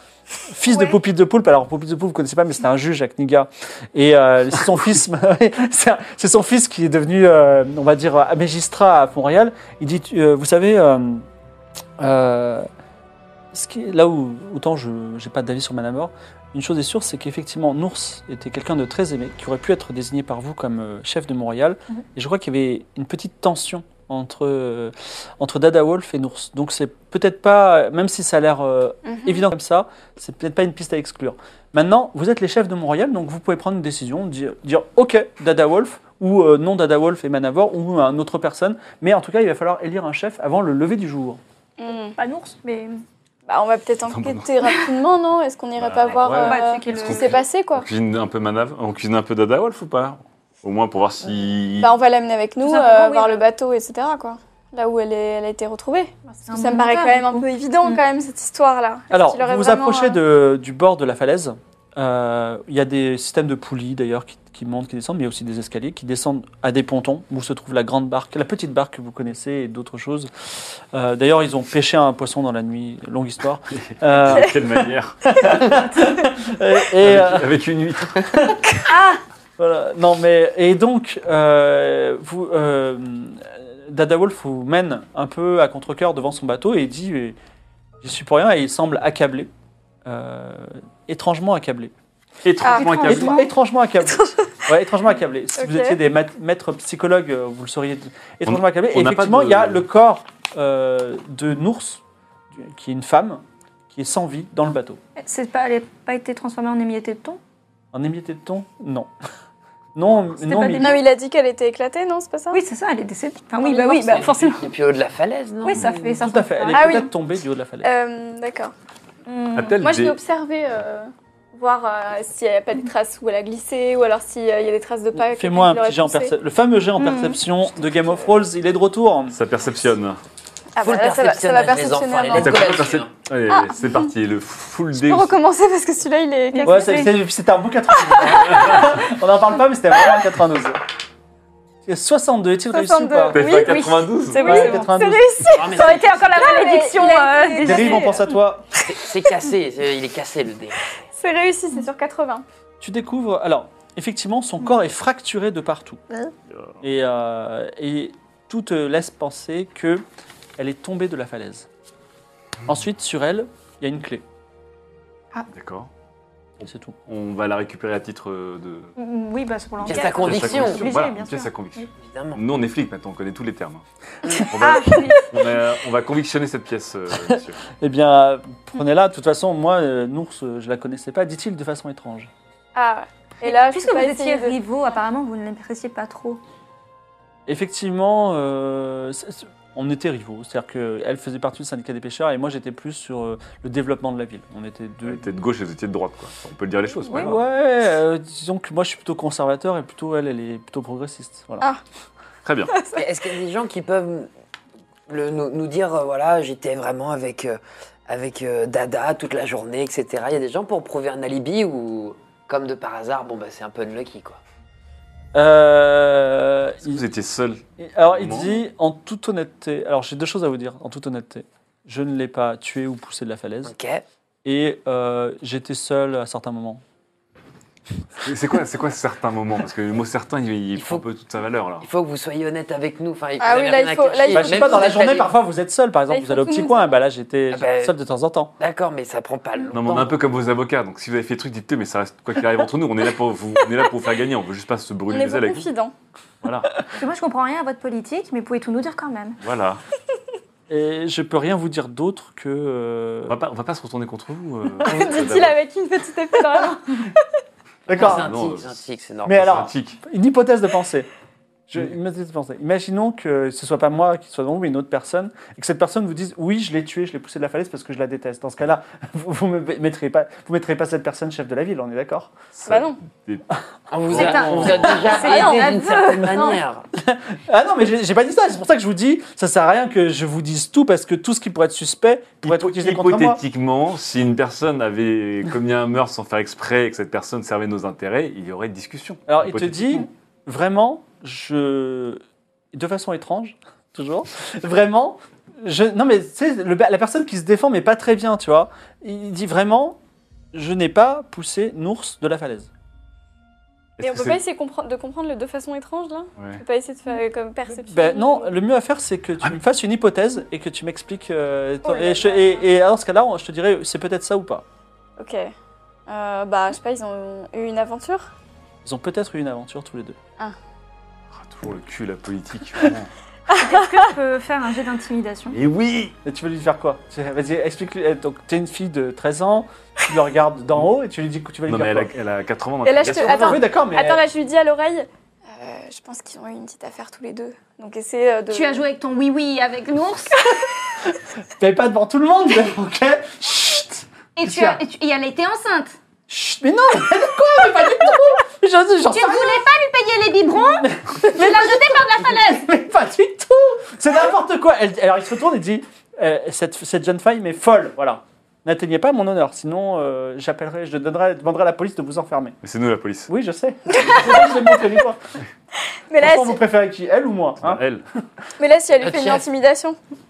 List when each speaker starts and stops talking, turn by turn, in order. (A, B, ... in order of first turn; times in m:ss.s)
0:00.5-0:11.2 A
0:00.7-0:01.0 B
0:12.0-0:12.7 A
0:13.5-0:41.4 A
0:29.1-0:29.4 B
0:41.8-0:42.1 B
0:42.2-0:43.0 C
0:43.5-0:47.9 B
0:44.1-0:44.5 D
0:45.8-0:52.0 D
0:46.1-0:47.4 C
0:51.8-1:00.2 B
0:52.6-0:53.4 C
0:56.4-0:58.0 C
0:59.1-1:10.3 A
1:10.9-1:17.5 A
1:14.1-1:15.8 D
1:17.0-1:18.5 D
1:18.3-1:18.6 A
1:19.6-1:27.4 A
1:28.0-1:29.5 A
1:30.1-1:31.9 A
1:32.4-1:33.5 D
1:32.6-1:33.3 B
1:32.8-1:33.2 C
1:32.9-1:42.0 A
1:35.6-1:36.0 B
1:38.5-1:39.9 D
1:42.5-1:45.0 A
1:45.2-1:47.4 C
1:47.9-1:49.1 A
1:50.0-1:51.0 A
1:50.4-1:51.0 C
1:50.8-1:52.6 B
1:52.5-1:54.6 C
1:53.6-1:54.3 B
1:54.1-1:56.2 E
1:55.6-1:57.0 C
1:56.2-1:57.9 A
1:56.7-1:57.1 B
1:57.8-1:58.7 B
1:59.3-1:59.8 C
1:59.5-2:00.2 D
1:59.8-2:06.3 B
2:05.1-2:09.4 A
2:07.0-2:07.4 C
2:09.3-2:10.2 D
2:10.8-2:12.7 B
2:10.8-2:13.2 E
2:12.4-2:15.4 D
2:13.5-2:13.9 B
2:14.9-2:17.2 B
2:16.5-2:17.1 C
2:16.6-2:20.8 A
2:18.2-2:18.9 B
2:21.9-2:23.4 A
2:22.7-2:28.3 B
2:23.3-2:24.8 D
2:23.7-2:24.8 C
2:24.4-2:25.5 A
2:25.5-2:26.3 E
2:25.6-2:28.3 C
2:27.6-2:28.6 A
2:28.9-2:30.8 E
2:31.2-2:32.4 B
2:32.8-2:36.0 A
2:36.8-2:40.0 A
2:40.6-2:41.7 A
2:42.7-2:44.2 A
2:45.5-2:45.9 D
2:46.6-2:48.9 D
2:46.6-2:47.0 A
2:49.0-2:51.9 C
2:49.8-2:51.1 E
2:49.9-2:53.8 D
2:52.0-2:52.4 E
2:54.4-2:57.6 D
2:54.6-2:55.2 C
2:57.3-3:02.3 A
3:02.8-3:04.6 B
3:03.4-3:06.4 C
3:07.5-3:15.2 A
3:15.0-3:17.4 D
3:17.1-3:21.6 A
3:22.4-3:22.7 D
3:22.8-3:23.0 B
3:22.9-3:24.3 E
3:25.1-3:34.4 E
3:35.3-3:37.0 A
3:36.8-3:38.6 D
3:37.8-3:43.7 A
3:43.6-3:44.0 E
3:44.4-3:46.8 A
3:48.2-3:51.9 D
3:50.8-3:51.1 E
3:51.8-3:55.3 E
3:53.4-3:55.2 B
3:54.3-3:58.5 A
3:56.1-3:56.8 B
3:57.5-3:57.9 E
3:58.6-4:00.2 E
3:59.7-4:05.7 D
4:05.1-4:05.9 B
4:06.4-4:06.7 D
4:07.0-4:09.4 C
4:09.4-4:09.8 D
4:10.7-4:13.4 A
4:13.3-4:15.6 D
4:14.8-4:17.2 B
4:17.9-4:18.2 A
4:17.9-4:19.6 E
4:18.0-4:18.8 D
4:19.3-4:21.1 A
4:19.3-4:20.0 D
4:21.7-4:32.3 A
4:32.6-4:33.4 D
4:32.7-4:33.0 B
4:33.9-4:36.8 E
4:34.0-4:35.0 D
4:34.1-4:36.6 C
4:35.1-4:36.6 B
4:37.0-4:43.4 A
4:42.4-4:50.1 D
4:49.3-4:52.2 A
4:52.7-5:00.0 A
5:00.5-5:02.7 A
5:04.0-5:04.4 D
5:04.0-5:08.5 B
5:07.9-5:14.6 A
5:11.8-5:12.6 B
5:15.2-5:15.5 B
5:16.1-5:18.3 B
5:18.8-5:20.2 A
5:21.3-5:23.1 D
5:23.5-5:23.9 B
5:23.6-5:25.6 C
5:25.5-5:26.2 D
5:26.2-5:32.1 A
5:31.7-5:33.6 D
5:32.8-5:38.8 B
5:33.1-5:34.2 A
5:38.5-5:40.4 C
5:41.6-5:44.8 A
5:44.4-5:46.0 C
5:46.3-5:49.6 A
5:49.1-5:52.7 C
5:50.8-6:02.6 A
6:02.6-6:03.3 D
6:03.3-6:05.2 A
6:04.1-6:04.4 B
6:06.1-6:06.6 B
6:06.2-6:07.8 A
6:07.6-6:08.0 D
6:08.6-6:10.0 B
6:09.0-6:09.4 E